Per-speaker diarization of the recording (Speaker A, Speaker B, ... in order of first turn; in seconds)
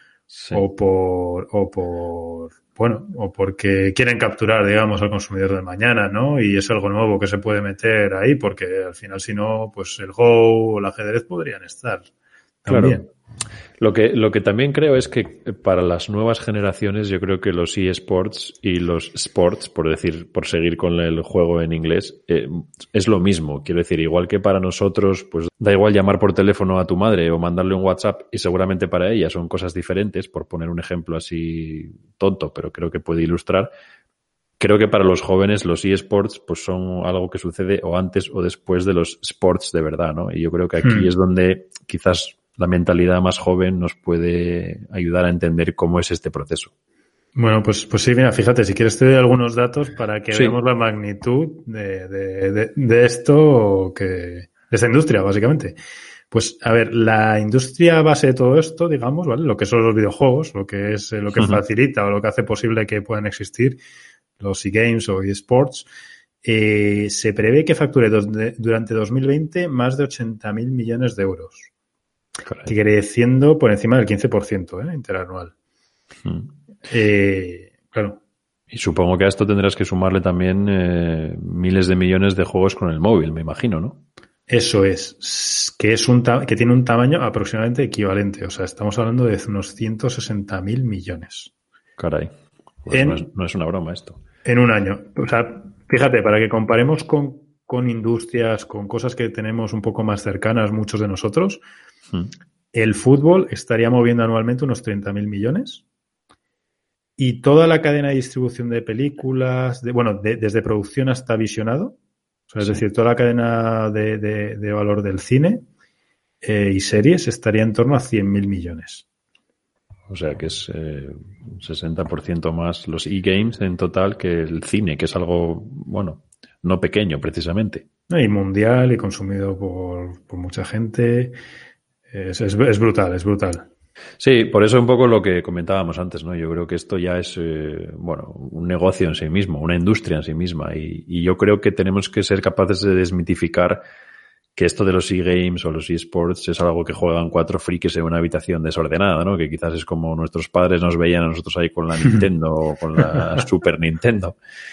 Speaker A: 0.3-0.6, 12.7-13.0, 13.8-33.7, 34.6-46.7, 50.3-50.6, 61.4-61.6, 72.5-72.7, 76.2-76.5, 78.7-84.0, 92.0-92.3, 92.8-94.2, 120.1-127.9, 134.2-143.8, 144.6-154.4
Speaker B: 0.5-12.1, 12.7-13.1, 40.8-41.1, 47.4-55.8, 56.3-63.8, 64.4-65.9, 66.4-71.7, 72.7-75.5, 76.9-78.2, 84.5-91.5, 92.9-93.2, 94.5-101.6, 102.7-105.8, 107.2-112.0, 112.5-115.6, 116.4-119.0, 128.1-131.4, 132.1-133.7